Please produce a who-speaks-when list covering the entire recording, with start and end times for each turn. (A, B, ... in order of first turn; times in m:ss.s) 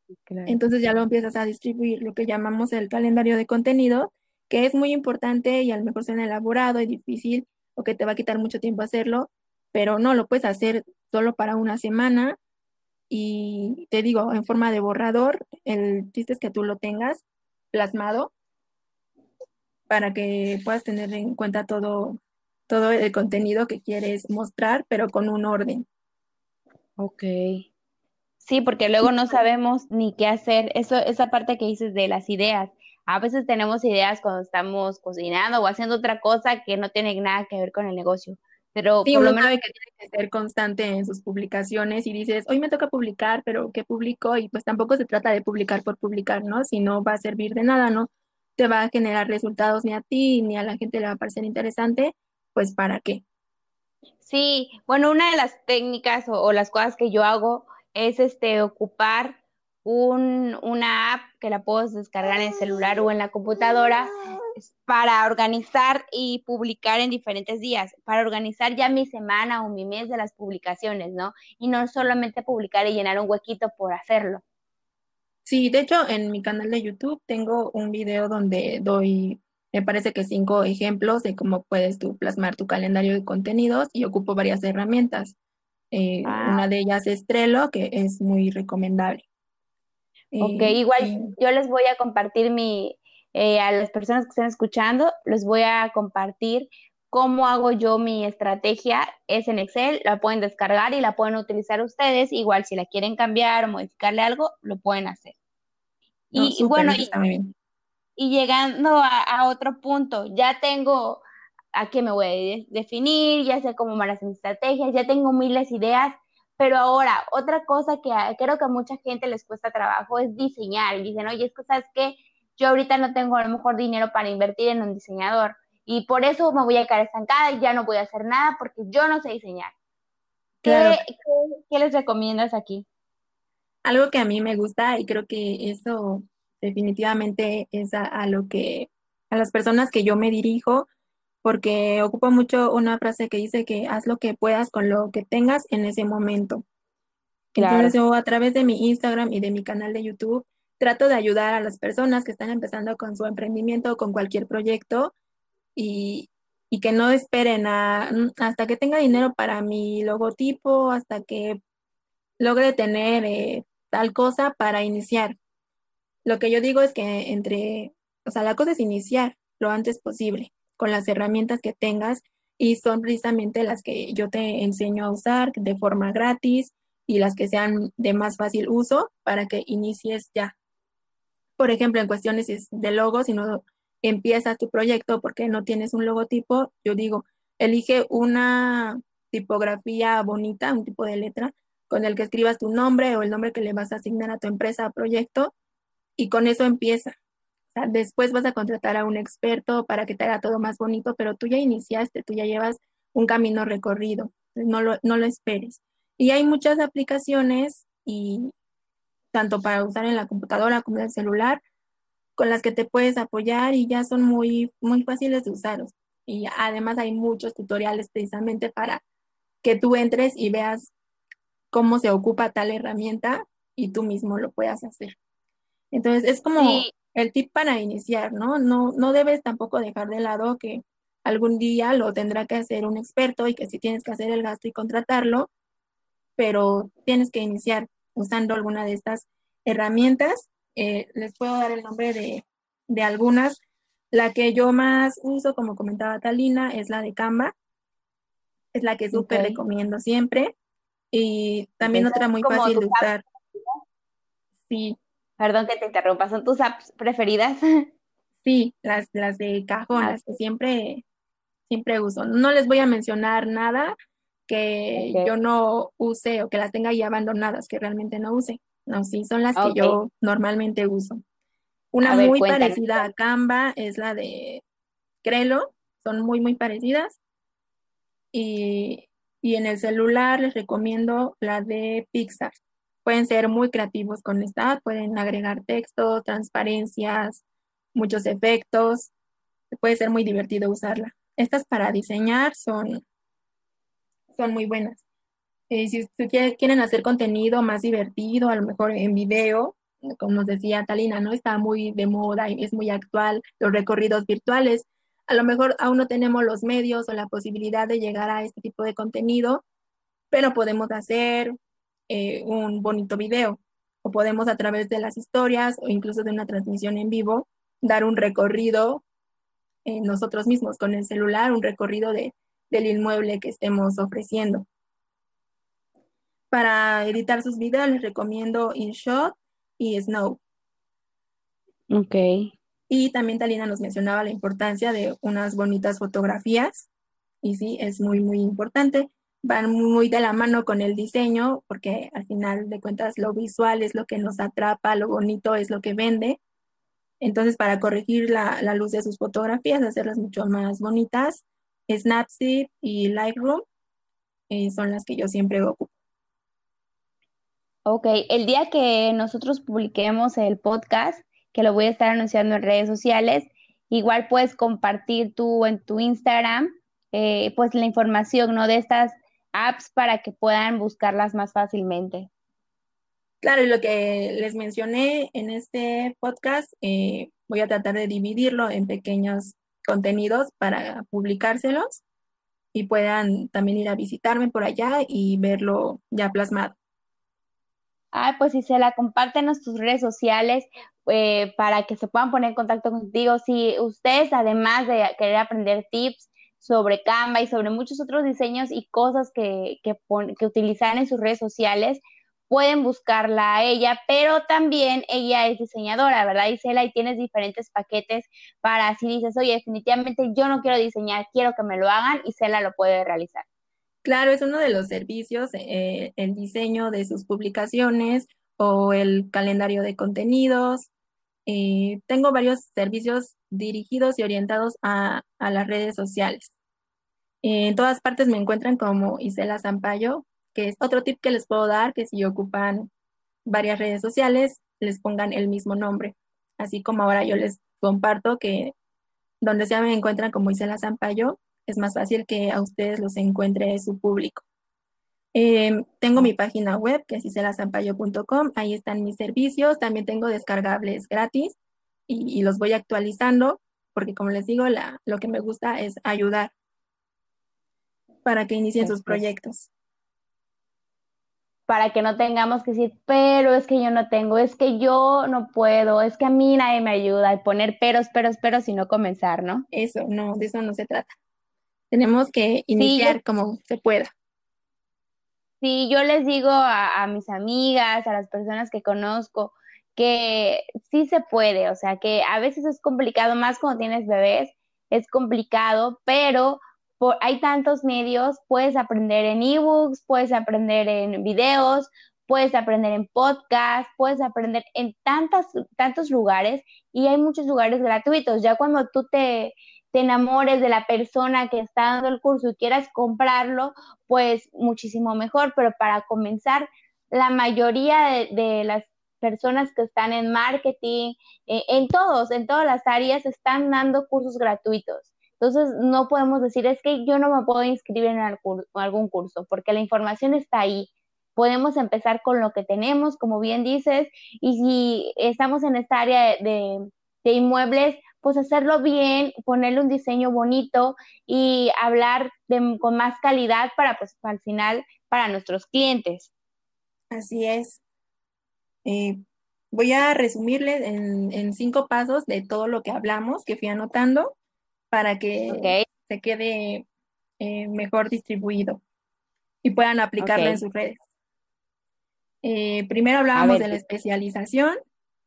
0:00.2-0:00.6 A
0:00.5-0:12.4 B
0:13.1-0:18.3 B
0:19.9-0:25.8 B
0:27.0-0:27.6 A
0:28.4-0:39.5 A
0:39.0-0:53.2 B
0:54.2-1:14.4 A
1:15.4-1:25.4 B
1:25.9-1:29.2 B
1:26.2-1:26.6 A
1:30.3-1:31.3 B
1:30.4-1:45.3 A
1:46.3-1:47.1 A
1:46.4-1:47.5 B
1:48.2-1:51.2 A
1:51.7-2:09.7 A
2:10.6-2:12.8 A
2:10.6-2:11.0 B
2:13.8-2:20.9 B
2:21.4-2:26.6 B
2:27.5-2:35.1 B
2:27.6-2:28.0 A
2:35.8-2:41.6 B
2:42.4-2:45.4 B
2:46.2-3:00.5 B
3:01.6-3:15.5 B
3:16.2-3:17.2 B
3:17.7-3:28.5 B
3:29.3-3:31.6 B
3:32.4-3:39.0 B
3:39.6-3:40.9 B
3:41.7-3:45.2 B
3:45.9-3:55.5 B
3:46.6-3:46.9 A
3:56.4-4:03.6 B
4:04.1-4:07.5 B
4:08.7-4:10.5 B
4:09.1-4:09.6 A
4:11.1-4:13.2 B
4:11.8-4:13.1 A
4:14.7-4:15.0 B
4:15.4-4:17.8 A
4:18.4-4:21.0 B
4:21.7-4:23.9 B
4:24.5-4:31.2 B
4:25.0-4:25.3 A
4:29.6-4:30.0 A
4:31.9-4:34.6 B
4:32.0-4:33.0 A
4:35.2-4:37.2 B
4:38.3-4:42.5 B
4:43.0-4:47.4 B
4:47.9-4:49.1 B
4:49.7-4:53.0 B
4:54.3-4:55.0 B
4:55.7-5:09.6 B
5:10.3-5:11.5 B
5:12.1-5:19.0 B
5:19.8-5:24.6 B
5:26.5-5:30.4 B
5:31.9-5:32.5 A
5:32.9-5:36.9 B
5:37.4-5:46.4 B
5:47.2-5:53.6 B
5:54.5-5:55.9 B
5:57.8-6:12.3 A
6:13.4-6:22.0 B
6:22.7-6:26.8 B
6:28.1-6:53.4 A
6:54.0-7:00.9 B
7:01.4-7:06.5 B
7:07.4-7:12.9 B
7:13.4-7:18.7 B
7:19.4-7:24.4 B
7:25.3-7:31.6 B
7:32.1-7:36.5 B
7:38.2-7:39.7 B
7:38.8-7:39.2 A
7:41.7-7:49.6 A
7:49.7-7:51.1 B
7:51.9-7:54.1 B
7:52.8-7:53.2 A
7:55.6-8:56.3 A
8:57.1-8:57.8 B
8:58.8-8:59.2 B
8:59.7-9:04.3 B
9:04.9-9:06.8 B
9:05.5-9:05.8 A
9:07.4-9:08.8 B
9:09.6-9:11.0 B
9:10.2-9:10.6 A
9:12.4-9:14.8 B
9:13.3-9:13.8 A